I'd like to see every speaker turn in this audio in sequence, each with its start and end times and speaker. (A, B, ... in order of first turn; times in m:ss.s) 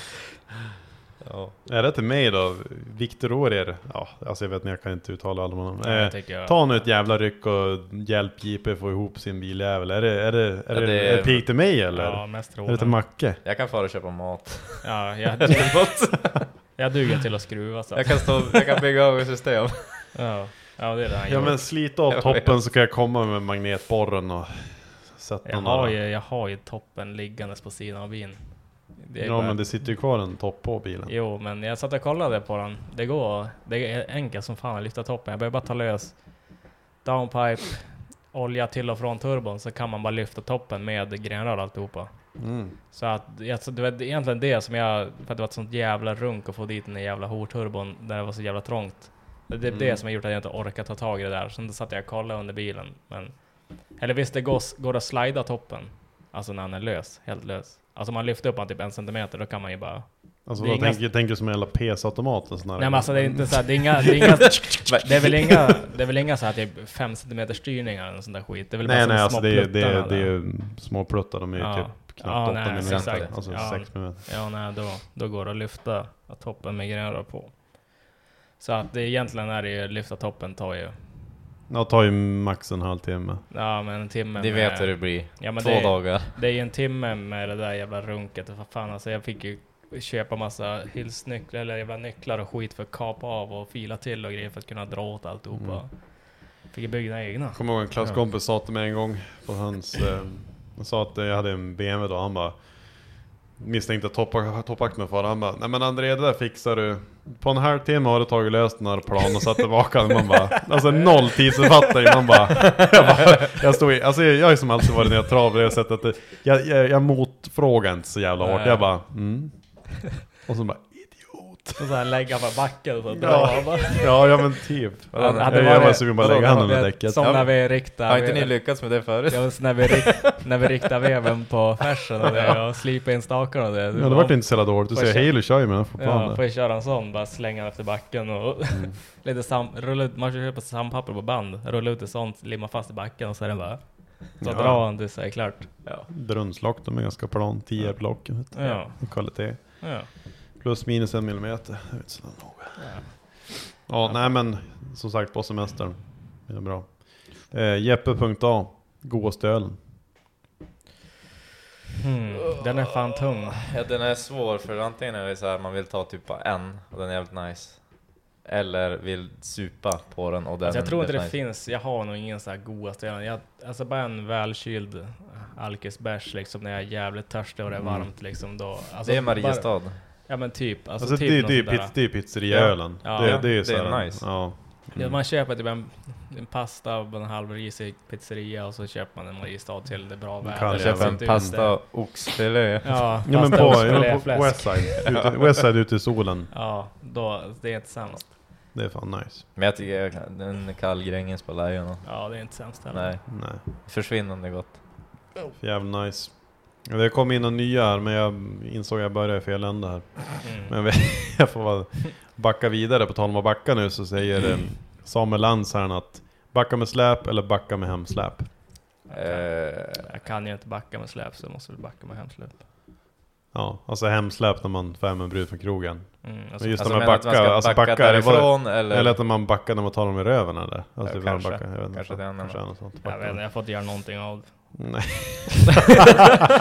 0:01.2-0:01.6 A
0:01.6-0:13.4 B
0:05.8-0:06.8 C
0:10.7-0:11.6 A
0:11.9-0:13.0 C
0:13.4-0:16.5 A
0:14.8-0:16.2 C
0:16.8-0:18.6 C
0:17.9-0:20.1 A
0:20.1-0:21.6 C
0:21.2-0:26.0 B
0:22.1-0:22.5 A
0:25.4-0:29.8 C
0:29.2-0:31.1 B
0:31.1-0:42.3 C
0:42.4-0:42.8 B
0:42.9-1:01.0 C
0:49.6-0:50.0 B
1:00.4-1:04.2 B
1:02.8-1:10.3 C
1:04.8-1:05.2 A
1:08.8-1:14.3 B
1:11.6-1:18.0 C
1:12.8-1:13.8 A
1:18.6-1:21.0 C
1:21.7-1:23.4 B
1:23.5-1:37.6 C
1:24.4-1:26.4 A
1:35.5-1:35.8 B
1:37.5-2:01.8 B
1:58.4-1:58.9 C
2:01.8-2:04.3 C
2:03.1-2:07.4 B
2:05.1-2:06.3 A
2:05.1-2:25.8 C
2:07.2-2:10.2 A
2:12.3-2:12.6 A
2:13.9-2:16.4 B
2:18.7-2:19.0 B
2:24.4-2:24.9 B
2:26.1-2:39.8 B
2:27.8-2:30.1 C
2:32.8-2:34.4 C
2:42.0-2:43.6 C
2:42.5-2:51.4 A
2:50.6-3:03.5 C
2:57.8-2:58.1 B
2:59.0-3:00.0 A
3:01.0-3:05.2 B
3:02.6-3:04.3 A
3:04.9-3:12.1 C
3:10.4-3:11.6 B
3:10.7-3:14.2 A
3:12.8-3:15.1 C
3:13.2-3:16.5 B
3:15.0-3:15.3 A
3:16.5-3:18.3 C
3:18.7-3:19.4 B
3:19.6-3:24.8 A
3:22.0-3:23.1 C
3:23.3-3:23.6 B
3:25.6-3:38.7 B
3:30.4-3:31.4 C
3:39.1-3:42.6 C
3:39.1-3:40.1 A
3:43.5-3:53.4 B
3:46.2-3:46.9 C
3:46.8-3:49.2 A
3:51.0-3:52.6 A
3:53.0-3:54.8 C
3:54.7-3:55.9 B